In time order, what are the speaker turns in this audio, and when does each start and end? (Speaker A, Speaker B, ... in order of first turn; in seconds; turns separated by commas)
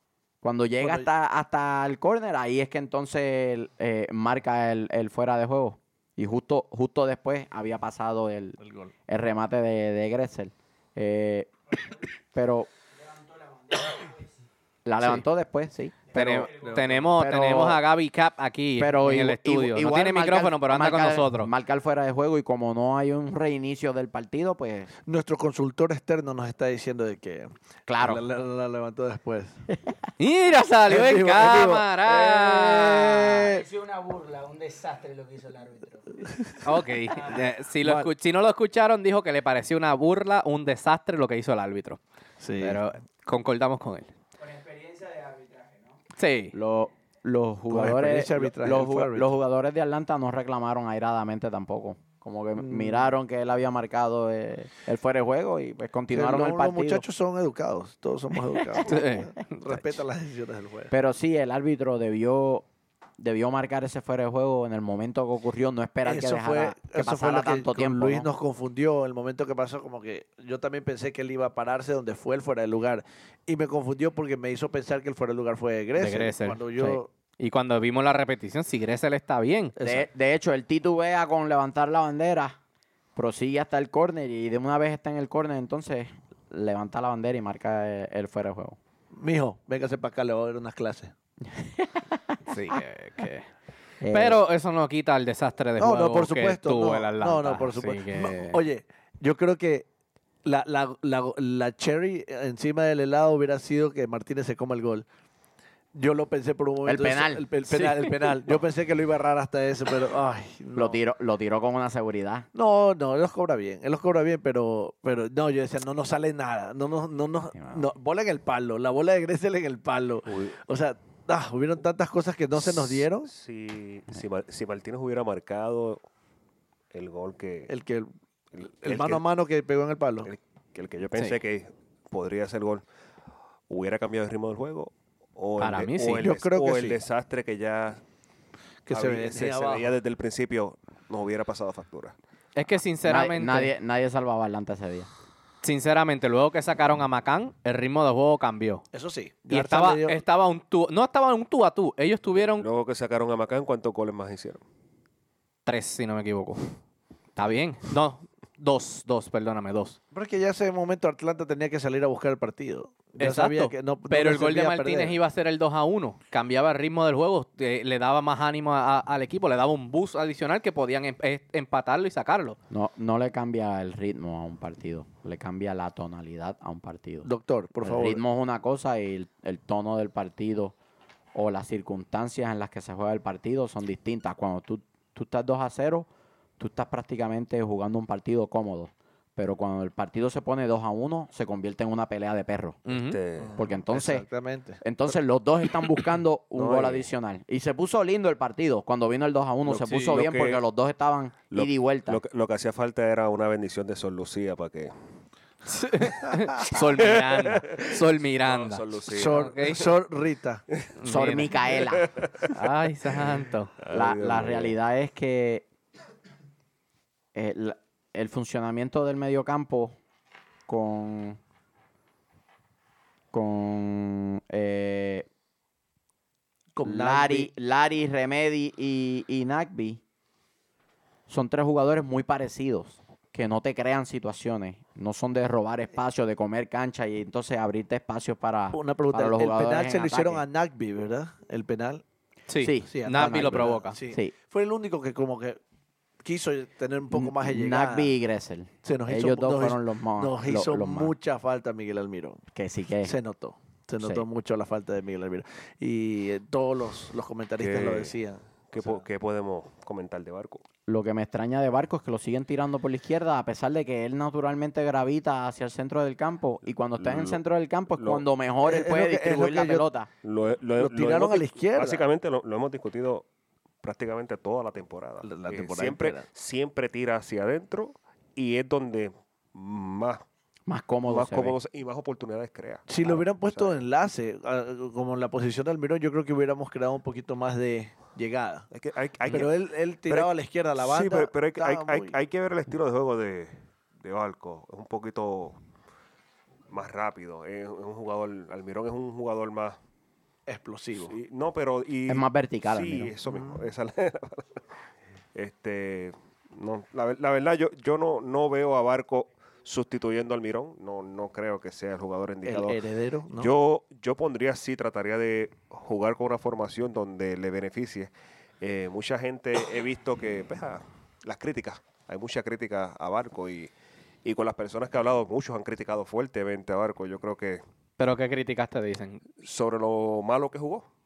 Speaker A: 0.4-11.5, Speaker B: 0.8-1.1, Speaker B: 8.6-8.9, Speaker A: 12.3-12.7, Speaker C: 12.9-14.4, Speaker A: 14.8-16.5, Speaker D: 16.1-21.5, Speaker C: 16.1-17.1, Speaker B: 16.6-17.0, Speaker A: 17.1-17.8, Speaker A: 18.8-24.9, Speaker B: 25.1-29.6, Speaker A: 27.9-28.2, Speaker D: 30.2-33.5, Speaker B: 30.9-33.6, Speaker C: 33.5-36.3, Speaker B: 36.3-36.6, Speaker D: 36.6-42.0, Speaker C: 37.1-37.5, Speaker B: 37.8-38.1, Speaker B: 42.4-42.8, Speaker D: 42.6-44.1, Speaker C: 44.4-46.0, Speaker D: 46.2-46.5, Speaker A: 46.5-57.0, Speaker B: 47.7-49.3, Speaker B: 52.6-53.1, Speaker B: 56.1-60.9, Speaker D: 58.9-60.0, Speaker A: 60.9-62.7, Speaker A: 63.2-68.3, Speaker B: 66.0-77.1, Speaker D: 76.0-79.8, Speaker B: 79.8-80.1, Speaker A: 79.8-82.6, Speaker A: 83.2-88.8, Speaker B: 89.1-91.1, Speaker A: 91.5-92.0, Speaker D: 92.5-93.5, Speaker A: 94.0-94.4, Speaker D: 94.1-98.6, Speaker B: 95.8-99.9, Speaker B: 100.5-105.1, Speaker B: 105.9-111.0, Speaker A: 106.9-107.5, Speaker D: 107.7-108.3, Speaker A: 110.8-112.5, Speaker B: 112.5-123.3, Speaker A: 117.6-117.9, Speaker E: 120.3-120.5, Speaker E: 122.6-126.0, Speaker E: 126.9-127.7, Speaker B: 127.7-128.1, Speaker E: 128.5-129.2, Speaker B: 128.8-130.3, Speaker E: 130.2-132.8, Speaker E: 133.7-138.0, Speaker D: 135.6-136.3, Speaker B: 136.2-137.0, Speaker B: 138.9-139.9, Speaker E: 138.9-142.2, Speaker D: 142.6-143.7, Speaker A: 143.0-145.1, Speaker D: 145.6-148.8, Speaker B: 148.9-150.2, Speaker D: 149.5-152.7, Speaker E: 152.5-154.6, Speaker D: 155.7-156.7, Speaker D: 157.4-160.0, Speaker B: 160.1-165.2, Speaker D: 163.2-172.6, Speaker A: 172.7-177.3, Speaker B: 177.2-178.2, Speaker A: 177.8-180.8, Speaker A: 181.3-186.1, Speaker A: 186.6-192.8, Speaker D: 192.9-193.2, Speaker E: 192.9-193.6, Speaker B: 193.4-194.8, Speaker A: 193.6-194.3, Speaker A: 194.8-202.2, Speaker E: 196.6-197.1, Speaker E: 200.0-200.6, Speaker E: 201.5-204.9, Speaker D: 205.7-209.8, Speaker E: 206.7-209.8, Speaker B: 209.1-210.6, Speaker D: 211.0-211.6, Speaker A: 211.1-212.1, Speaker E: 211.9-212.5, Speaker D: 212.5-213.8, Speaker E: 213.8-214.8, Speaker A: 213.9-215.7, Speaker A: 217.3-220.0, Speaker A: 220.7-221.4, Speaker A: 223.3-225.3, Speaker B: 226.7-227.5, Speaker A: 226.8-230.0, Speaker A: 231.3-240.4, Speaker B: 238.7-242.0, Speaker D: 242.5-244.0, Speaker A: 242.6-244.3, Speaker B: 242.9-245.6, Speaker B: 246.2-248.1, Speaker A: 247.1-251.1, Speaker B: 248.8-252.4, Speaker A: 252.6-253.1, Speaker B: 253.0-259.0, Speaker A: 254.0-254.2, Speaker E: 257.6-258.1, Speaker E: 258.7-260.6, Speaker A: 260.9-270.1, Speaker E: 267.0-267.4, Speaker E: 268.0-268.2, Speaker B: 268.6-269.9, Speaker E: 270.2-273.3, Speaker B: 270.8-272.1, Speaker E: 273.8-280.2, Speaker B: 275.2-276.3, Speaker A: 280.7-281.6, Speaker E: 281.1-283.8, Speaker B: 282.9-288.7, Speaker E: 288.7-295.6, Speaker B: 289.3-292.2, Speaker E: 296.7-299.8, Speaker B: 300.5-301.2, Speaker E: 301.0-304.6, Speaker A: 302.1-303.1, Speaker B: 303.3-303.6, Speaker E: 305.4-323.7, Speaker B: 312.4-313.5, Speaker E: 324.2-327.6, Speaker D: 328.0-329.2, Speaker E: 329.4-330.9